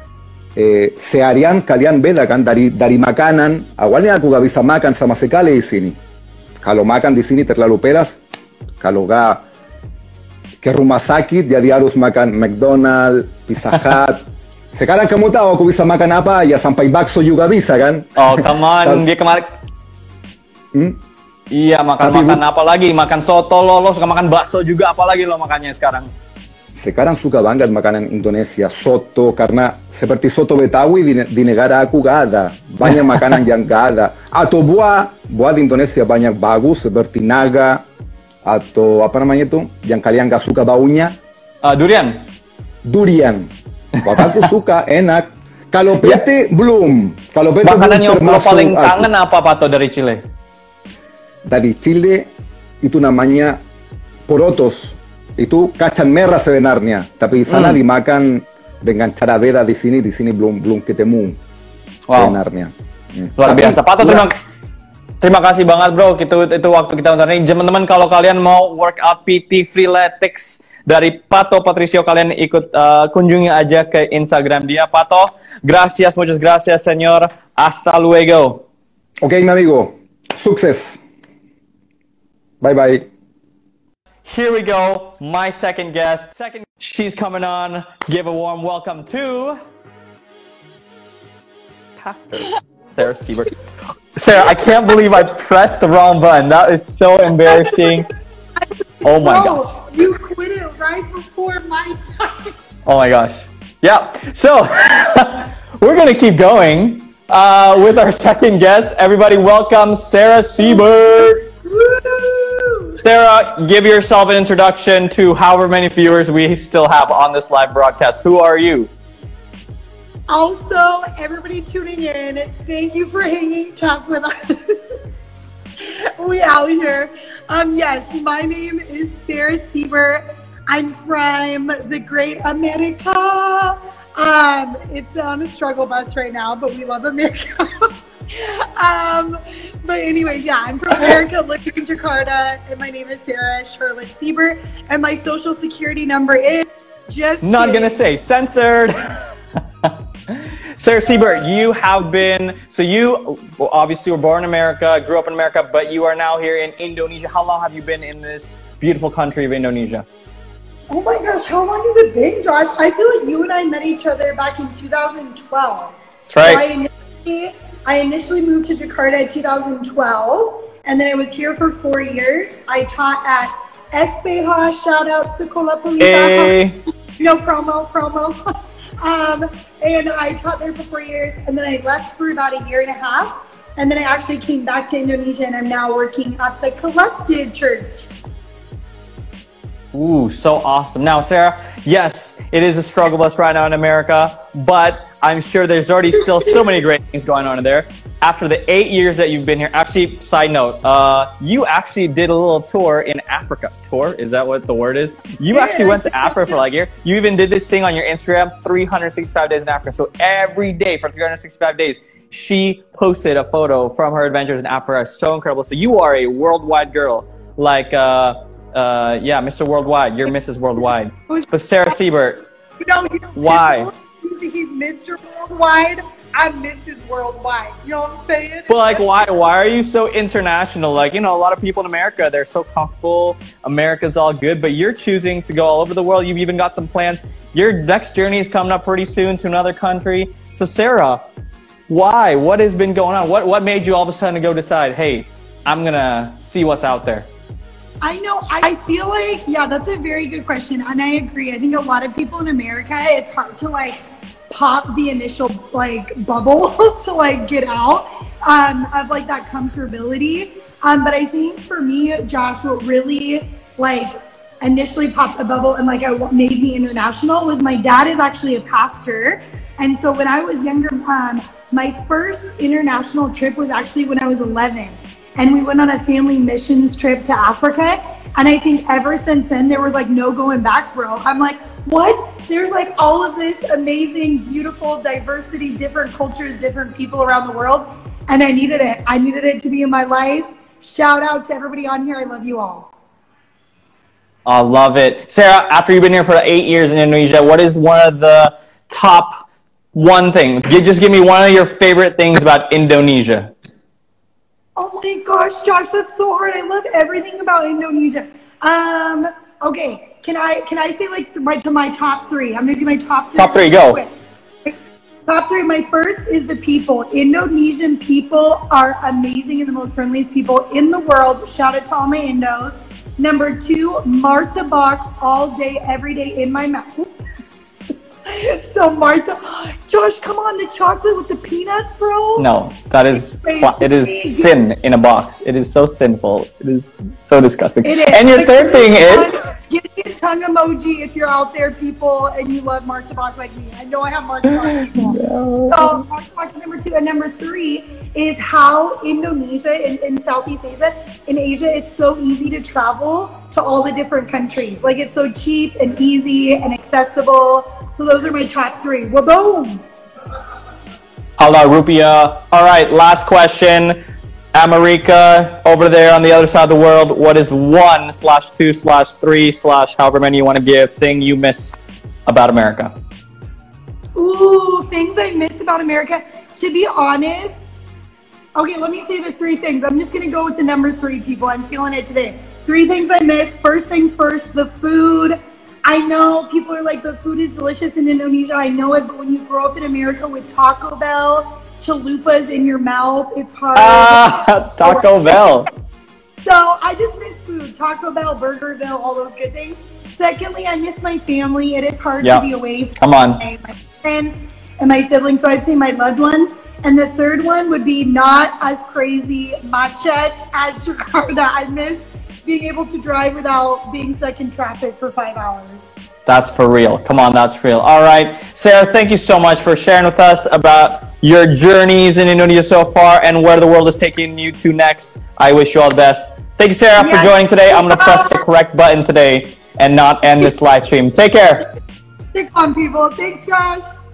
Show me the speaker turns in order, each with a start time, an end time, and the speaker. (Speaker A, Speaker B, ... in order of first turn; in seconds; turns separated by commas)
Speaker A: 0.6-6.0, Speaker A: 6.6-8.2, Speaker A: 8.8-9.4, Speaker A: 10.6-18.2, Speaker B: 18.2-19.5, Speaker B: 21.5-26.1, Speaker A: 22.0-22.4, Speaker A: 26.8-37.8, Speaker B: 32.8-33.4, Speaker A: 38.4-41.1, Speaker B: 41.6-42.3, Speaker A: 42.8-43.5, Speaker B: 44.0-44.4, Speaker A: 44.0-49.1, Speaker B: 47.6-50.2, Speaker A: 51.5-52.3, Speaker A: 52.8-53.6, Speaker A: 54.3-61.4, Speaker B: 57.5-57.8, Speaker B: 62.1-62.4, Speaker A: 62.1-64.3, Speaker B: 63.4-64.3, Speaker B: 65.2-78.6, Speaker A: 79.2-81.0, Speaker A: 82.6-83.0, Speaker B: 84.2-89.6, Speaker B: 92.0-93.6, Speaker B: 94.2-98.1, Speaker C: 97.4-98.0, Speaker C: 98.6-102.5, Speaker B: 99.0-99.7, Speaker B: 102.8-111.4, Speaker C: 110.6-113.0, Speaker B: 113.0-118.9, Speaker C: 120.3-125.3, Speaker C: 126.2-148.0, Speaker B: 147.4-149.3, Speaker B: 149.8-160.1, Speaker C: 160.9-178.4, Speaker B: 166.3-166.6, Speaker B: 176.0-176.8, Speaker C: 179.0-188.1, Speaker B: 189.9-222.5, Speaker C: 196.2-196.7, Speaker C: 205.5-206.6, Speaker C: 221.3-222.0, Speaker C: 222.8-229.1, Speaker B: 223.3-223.9, Speaker B: 228.7-241.2, Speaker B: 241.9-247.3, Speaker C: 248.0-292.9, Speaker B: 294.4-299.4, Speaker B: 299.9-303.5, Speaker C: 304.8-314.1, Speaker B: 313.3-314.0, Speaker C: 315.3-332.5, Speaker B: 332.4-339.3, Speaker C: 333.1-334.6, Speaker C: 337.8-359.8, Speaker B: 344.5-346.0, Speaker B: 361.4-364.0, Speaker B: 364.5-372.9, Speaker C: 374.1-377.8, Speaker C: 378.6-395.5, Speaker B: 393.7-395.7, Speaker C: 396.4-415.9, Speaker B: 403.0-403.4, Speaker B: 416.2-431.6, Speaker C: 427.0-428.4, Speaker C: 432.3-433.8